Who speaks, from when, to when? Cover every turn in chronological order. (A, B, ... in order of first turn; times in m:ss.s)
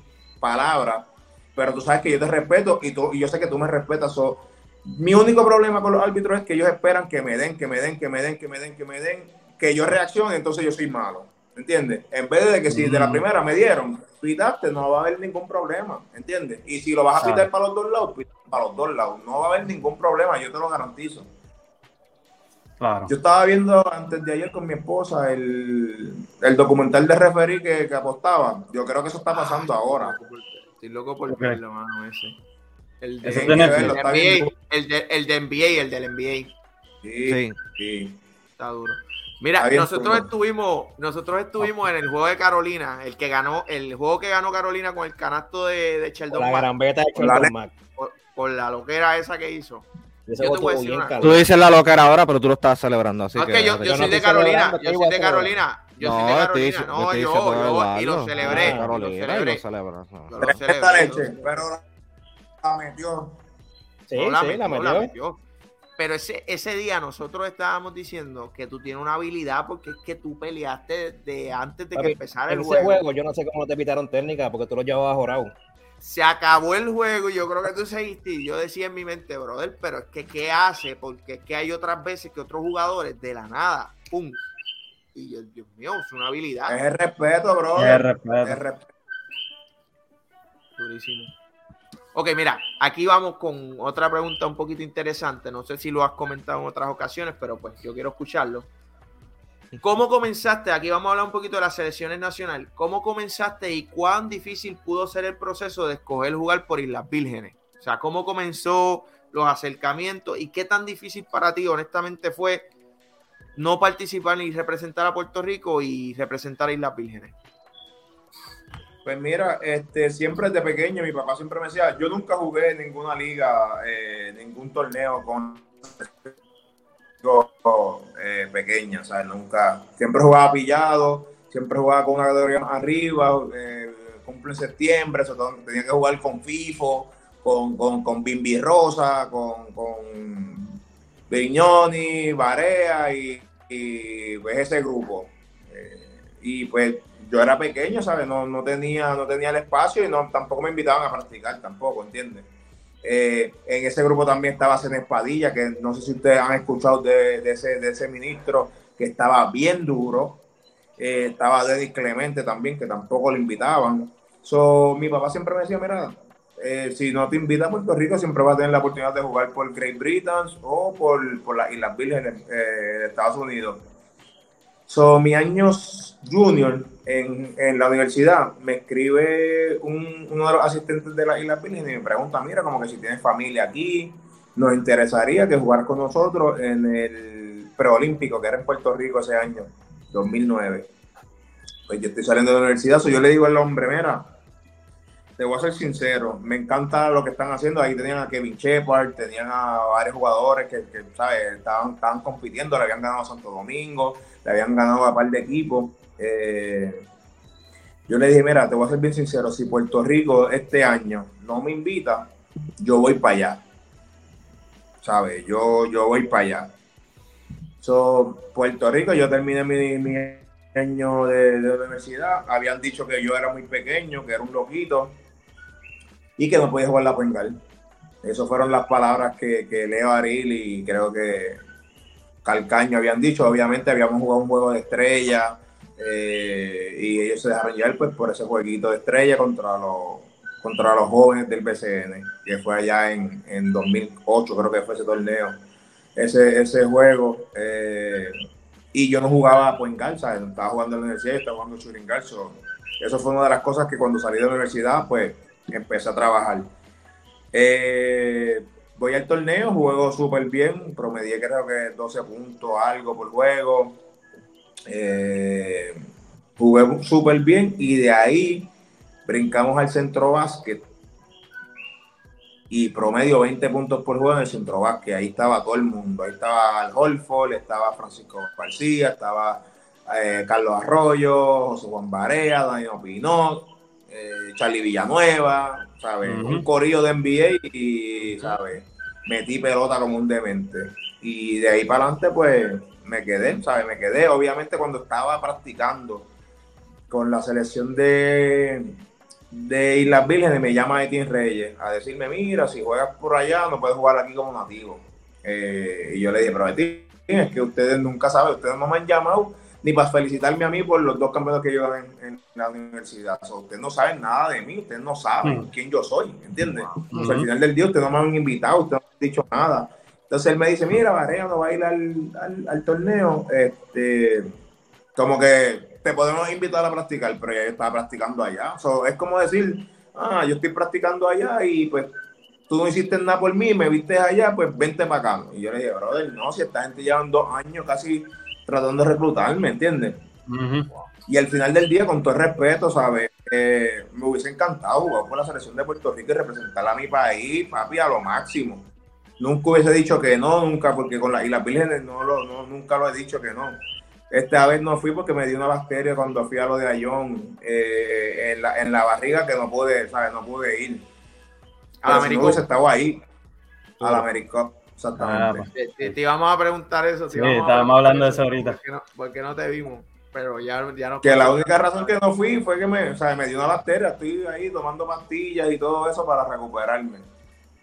0:00.4-0:21.3 A
0:12.7-0:13.3 B
0:17.2-0:17.5 C
0:22.8-0:23.1 B
0:23.1-0:30.2 A
0:29.3-0:32.4 D
0:31.3-0:31.6 B
0:33.0-0:36.5 D
0:33.2-0:34.0 B
0:33.2-0:34.5 A
0:37.0-0:38.2 A
0:37.3-0:37.6 C
0:38.6-0:46.7 D
0:39.6-0:40.3 A
0:46.3-0:47.8 E
0:47.2-0:47.5 A
0:48.0-0:49.9 D
0:50.3-0:51.4 E
0:50.4-0:51.4 D
0:51.2-0:54.2 C
0:53.4-0:59.6 D
0:53.8-0:55.6 E
0:56.0-1:00.6 C
0:58.4-0:59.0 E
1:00.3-1:01.6 D
1:00.4-1:01.8 A
1:02.6-1:03.4 A
1:04.1-1:05.1 E
1:04.1-1:05.4 D
1:06.0-1:13.0 D
1:12.0-1:15.6 E
1:16.0-1:24.4 D
1:25.1-1:26.8 D
1:26.7-1:28.9 A
1:27.8-1:28.6 B
1:30.8-1:31.3 D
1:32.1-1:38.7 D
1:39.8-1:52.7 D
1:53.6-1:57.4 D
1:59.0-2:06.3 A
2:07.2-2:20.8 A
2:21.3-2:32.5 A
2:33.0-2:40.4 A
2:41.0-2:53.8 A
2:54.9-3:10.9 A
3:11.9-3:14.2 A
3:15.4-3:27.0 A
3:28.1-3:33.6 A
3:35.0-3:36.7 A
3:37.8-3:45.2 A
3:46.4-3:47.6 A
3:48.2-3:51.6 A
3:52.4-4:05.6 A
4:06.2-4:08.4 A
4:08.9-4:16.7 A
4:17.5-4:24.0 A
4:24.9-4:26.0 A
4:26.6-4:28.7 A
4:29.3-4:30.8 A
4:32.7-4:56.3 A
4:46.2-4:46.7 B
4:57.1-4:59.0 A
4:59.5-5:24.5 A
5:15.4-5:15.7 B
5:17.1-5:17.5 B
5:25.2-5:32.1 A
5:32.7-5:40.2 A
5:40.5-5:40.9 B
5:41.3-5:48.9 A
5:49.4-5:53.8 A
5:54.3-6:01.0 A
6:02.0-6:02.7 D
6:02.0-6:03.2 A
6:04.0-6:05.7 A
6:05.2-6:06.1 B
6:05.7-6:12.2 D
6:07.3-6:08.8 B
6:11.2-6:17.3 A